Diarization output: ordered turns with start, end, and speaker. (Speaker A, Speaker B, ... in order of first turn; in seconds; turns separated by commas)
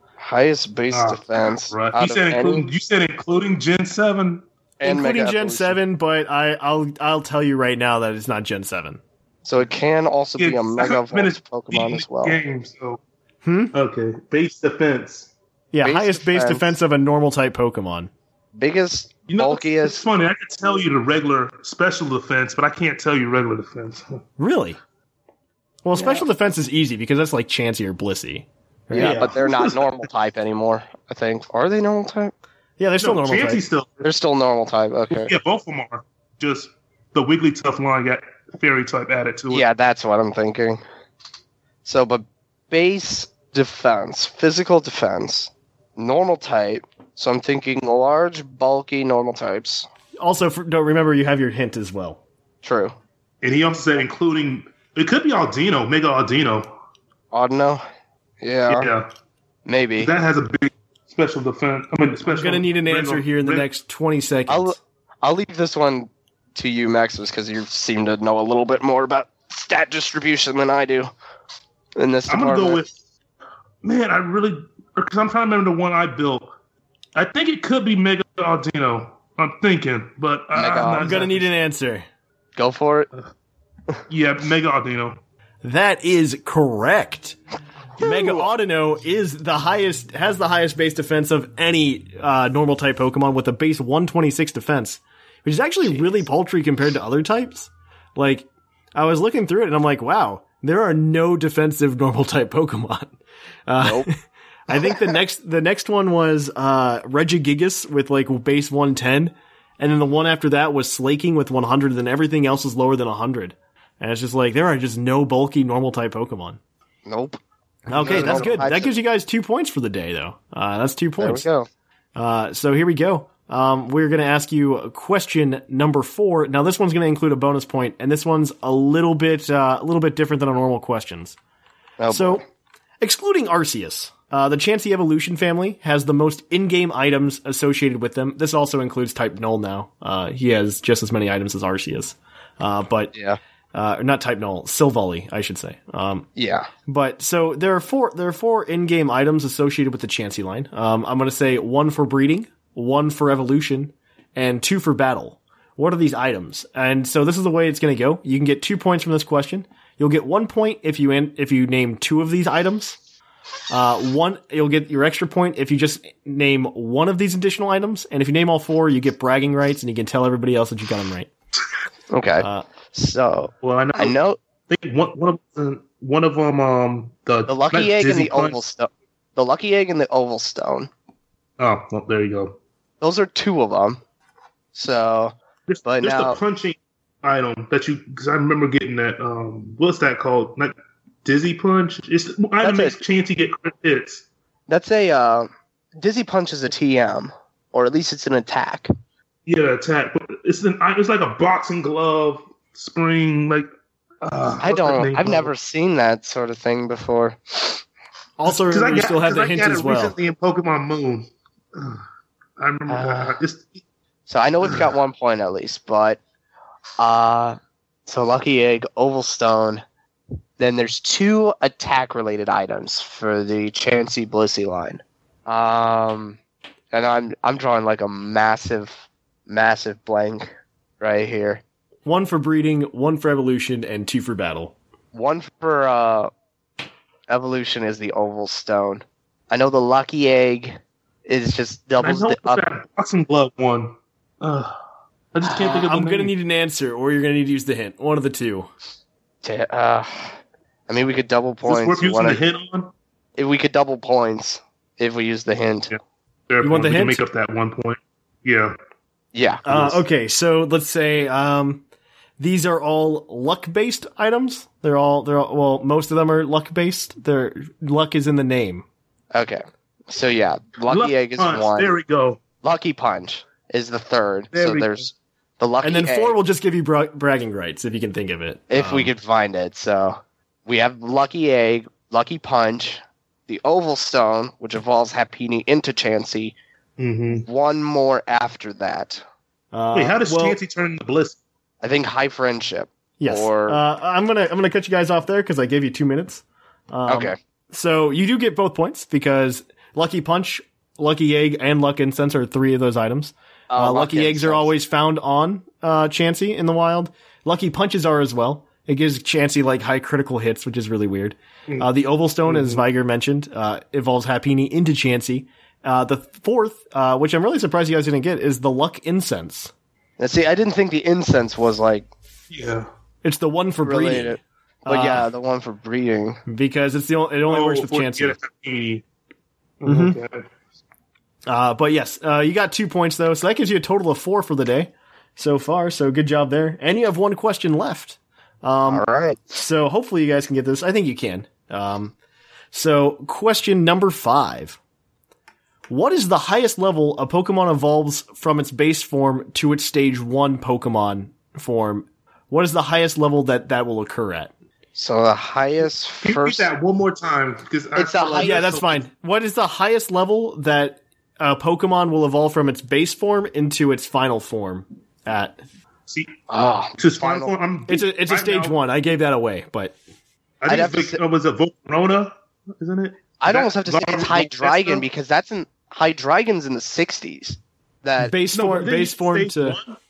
Speaker A: 0.2-2.6, Speaker B: 0.9-4.4, Speaker C: 4.8-9.0, Speaker A: 4.8-5.8, Speaker A: 9.4-12.4, Speaker B: 10.4-13.0, Speaker C: 13.4-13.7, Speaker B: 13.7-15.3, Speaker C: 15.7-18.1, Speaker A: 15.8-16.7, Speaker A: 18.6-20.0, Speaker B: 19.2-24.2, Speaker C: 24.4-24.8, Speaker C: 25.8-29.4, Speaker A: 25.9-26.2, Speaker B: 28.9-30.1, Speaker A: 28.9-32.3, Speaker C: 32.8-33.6, Speaker B: 33.0-34.0, Speaker A: 34.0-35.3, Speaker B: 35.1-39.6, Speaker A: 39.5-40.8, Speaker A: 41.8-49.9, Speaker C: 50.2-52.2, Speaker A: 52.6-52.9, Speaker B: 53.4-56.7, Speaker A: 57.3-57.8, Speaker A: 58.4-58.9, Speaker B: 58.7-59.1, Speaker A: 59.6-60.1, Speaker B: 60.0-63.6, Speaker C: 62.2-64.8, Speaker A: 64.5-71.1, Speaker A: 72.0-72.8, Speaker B: 72.3-72.9, Speaker B: 73.8-76.5, Speaker B: 77.1-81.4, Speaker A: 80.5-81.2, Speaker C: 81.0-82.0, Speaker A: 82.5-83.1, Speaker B: 84.1-85.2, Speaker C: 85.6-87.4, Speaker C: 88.0-103.2, Speaker A: 88.0-88.3, Speaker A: 95.8-96.2, Speaker C: 103.7-104.1, Speaker A: 103.8-104.1, Speaker C: 104.7-116.6, Speaker A: 104.7-105.0, Speaker A: 117.0-117.4, Speaker C: 117.9-121.5, Speaker B: 117.9-118.8, Speaker A: 117.9-118.9, Speaker A: 121.2-121.7, Speaker C: 122.2-131.3, Speaker A: 132.0-132.4, Speaker C: 132.1-132.4, Speaker C: 133.0-143.1, Speaker A: 143.1-143.4, Speaker C: 143.7-146.3, Speaker A: 146.3-146.7, Speaker C: 146.8-163.0, Speaker C: 163.7-171.3, Speaker A: 172.1-174.4, Speaker B: 173.6-178.6, Speaker A: 177.5-180.9, Speaker B: 181.6-182.5, Speaker A: 183.0-184.0, Speaker A: 184.7-185.3, Speaker B: 185.7-194.2, Speaker A: 185.8-186.4, Speaker A: 192.6-192.9, Speaker A: 194.7-198.9, Speaker B: 199.4-203.7, Speaker B: 204.2-205.5, Speaker A: 204.6-207.8, Speaker C: 208.4-210.2, Speaker B: 208.4-212.0, Speaker B: 212.6-213.8, Speaker A: 212.9-213.4, Speaker A: 214.3-216.2, Speaker A: 217.0-219.8, Speaker A: 220.6-226.4, Speaker A: 226.9-231.6, Speaker C: 232.1-234.7, Speaker A: 235.1-236.3, Speaker A: 237.3-242.6, Speaker B: 242.0-244.8, Speaker B: 245.3-246.3, Speaker A: 245.5-245.7, Speaker C: 245.5-248.7, Speaker A: 249.4-250.3, Speaker A: 250.9-252.4, Speaker B: 251.7-252.9, Speaker A: 253.4-255.9, Speaker B: 256.5-258.7, Speaker C: 256.6-257.2, Speaker A: 259.3-260.0, Speaker C: 259.6-261.8, Speaker C: 262.4-268.8, Speaker A: 269.3-271.9, Speaker B: 270.8-272.4, Speaker A: 272.6-276.4, Speaker B: 274.5-275.1, Speaker C: 275.8-279.1, Speaker A: 278.7-286.5, Speaker B: 287.0-287.4, Speaker A: 287.5-289.2, Speaker C: 289.7-290.6, Speaker B: 289.9-291.4, Speaker A: 291.8-293.8, Speaker C: 293.2-319.7, Speaker A: 297.1-297.4, Speaker A: 303.7-304.7, Speaker B: 312.5-312.8, Speaker A: 320.2-322.1, Speaker B: 322.5-322.9, Speaker C: 323.2-325.3, Speaker A: 323.8-326.4, Speaker C: 326.4-328.4, Speaker B: 327.5-329.0, Speaker B: 329.8-330.4, Speaker C: 329.9-330.2, Speaker C: 331.5-342.1, Speaker A: 338.9-339.4, Speaker C: 342.7-344.8, Speaker C: 345.9-354.5, Speaker A: 354.9-356.7, Speaker B: 356.2-359.0, Speaker A: 357.9-358.7, Speaker C: 358.4-365.6, Speaker B: 366.1-366.3, Speaker A: 366.5-367.5, Speaker B: 367.0-368.8, Speaker C: 367.9-369.9, Speaker B: 370.6-375.1, Speaker A: 370.7-371.2, Speaker A: 373.4-378.3, Speaker C: 378.2-379.8, Speaker B: 378.4-380.0